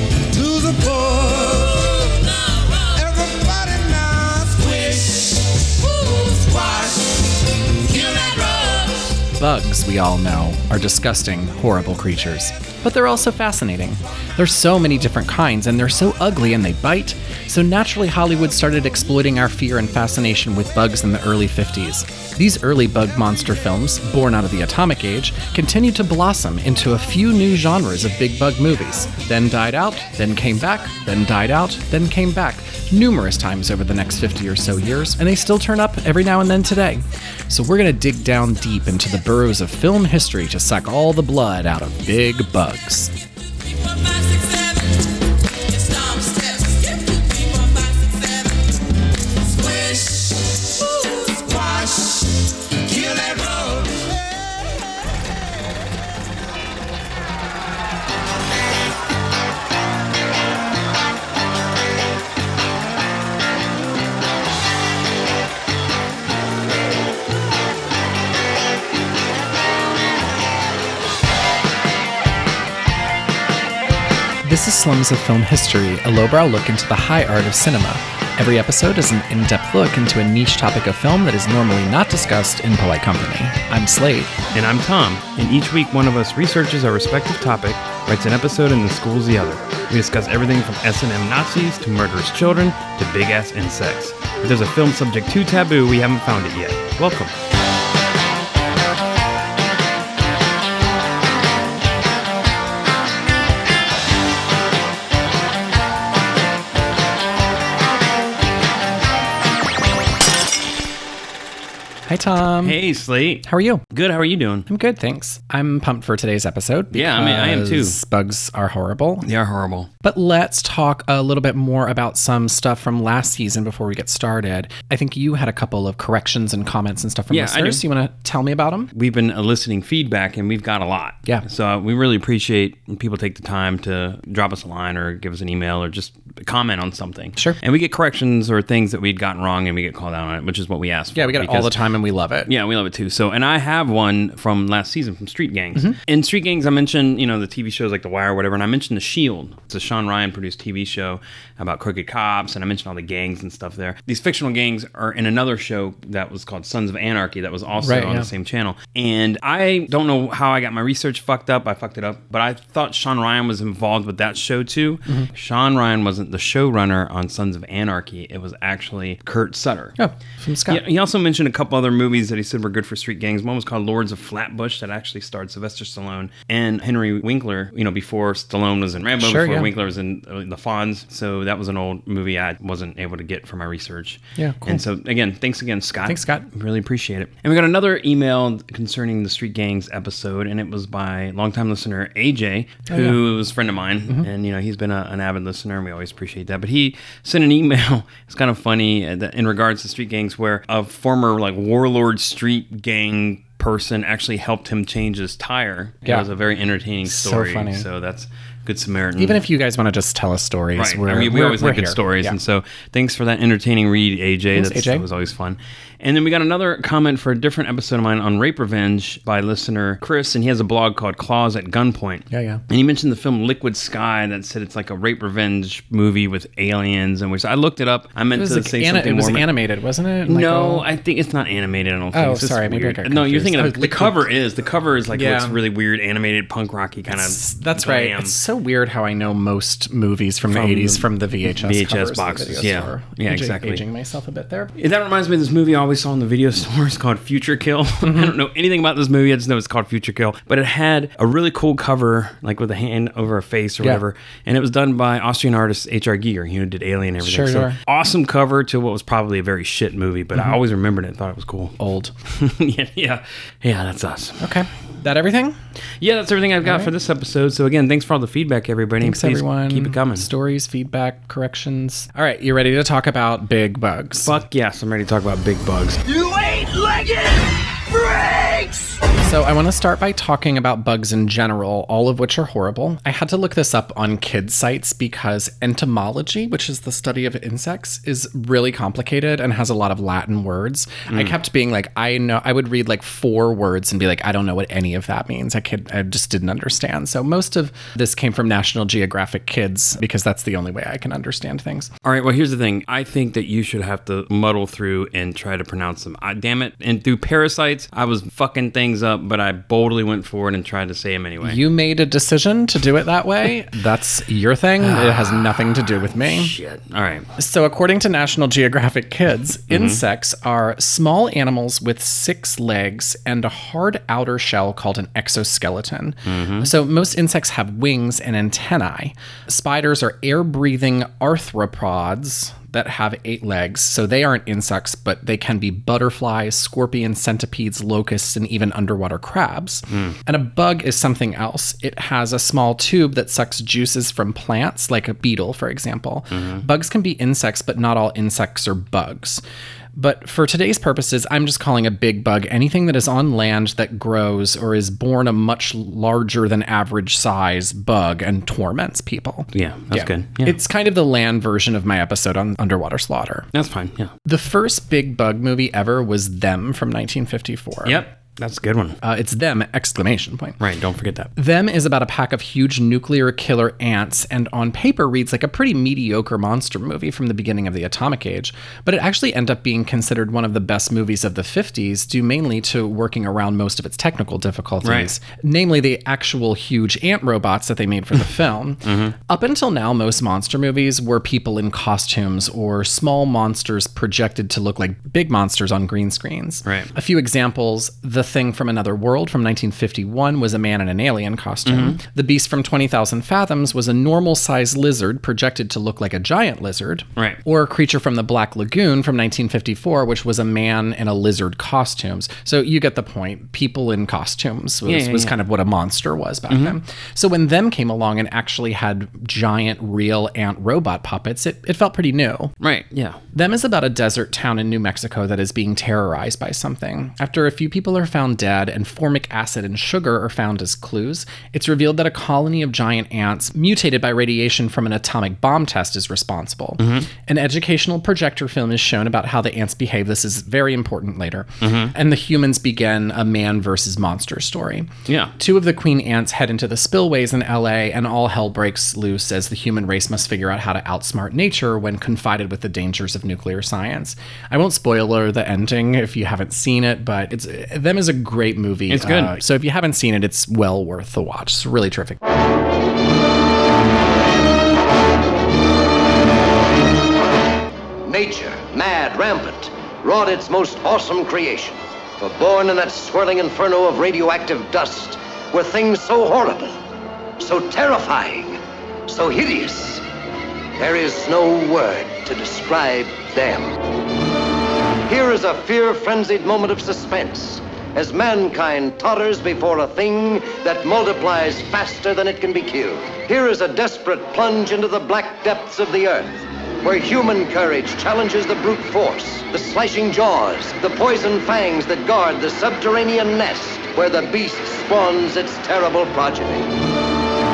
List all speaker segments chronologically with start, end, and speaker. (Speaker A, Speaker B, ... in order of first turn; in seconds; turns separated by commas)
Speaker A: 0.3-2.2, Speaker A: 2.8-9.2, Speaker B: 9.3-43.1, Speaker A: 45.8-48.4, Speaker A: 49.5-54.1, Speaker B: 74.4-84.4, Speaker C: 84.5-97.3, Speaker B: 112.1-112.8, Speaker C: 112.6-114.7, Speaker B: 113.5-113.8, Speaker B: 114.7-119.3, Speaker C: 116.9-118.0, Speaker C: 119.2-119.9, Speaker B: 120.0-128.9, Speaker C: 127.3-127.8, Speaker C: 128.9-141.8, Speaker B: 141.1-142.5, Speaker C: 142.5-169.9, Speaker B: 157.8-158.3, Speaker B: 170.0-170.8, Speaker C: 170.7-209.4, Speaker B: 179.2-179.7, Speaker B: 184.4-184.8, Speaker B: 186.0-186.5, Speaker B: 192.9-193.2, Speaker B: 207.1-207.9, Speaker B: 209.2-212.4, Speaker C: 210.8-229.5, Speaker B: 214.5-215.1, Speaker B: 222.3-222.6, Speaker B: 228.3-230.8, Speaker C: 230.3-238.3, Speaker B: 232.1-234.3, Speaker B: 235.1-235.6, Speaker B: 237.1-244.7, Speaker C: 240.5-243.8, Speaker C: 244.8-261.8, Speaker B: 248.0-248.3, Speaker B: 257.2-257.8, Speaker B: 261.8-262.1, Speaker C: 262.3-264.6, Speaker B: 264.4-265.6, Speaker C: 266.0-270.3, Speaker B: 266.6-266.9, Speaker B: 269.0-274.4, Speaker C: 274.2-276.3, Speaker C: 278.1-278.7, Speaker B: 279.2-301.9, Speaker C: 291.1-291.4, Speaker C: 302.0-311.6, Speaker B: 311.4-316.6, Speaker C: 314.8-317.3, Speaker B: 317.4-349.4, Speaker C: 319.7-320.0, Speaker C: 326.3-326.7, Speaker C: 339.9-340.2, Speaker C: 346.3-346.6, Speaker B: 349.9-363.5, Speaker C: 359.5-360.6, Speaker C: 363.5-364.1, Speaker B: 364.3-368.0, Speaker C: 367.9-369.0, Speaker B: 369.0-370.6, Speaker C: 370.6-371.3, Speaker B: 371.4-422.5, Speaker C: 384.8-385.1, Speaker C: 388.9-389.2, Speaker C: 401.7-402.0, Speaker C: 414.9-415.4, Speaker C: 416.5-416.8, Speaker C: 422.6-423.2, Speaker B: 423.3-462.2, Speaker C: 436.8-437.1, Speaker C: 441.6-441.9, Speaker C: 445.1-445.3, Speaker C: 458.9-459.4, Speaker D: 468.0-476.8, Speaker D: 477.4-480.1, Speaker D: 480.8-483.8, Speaker D: 485.1-506.7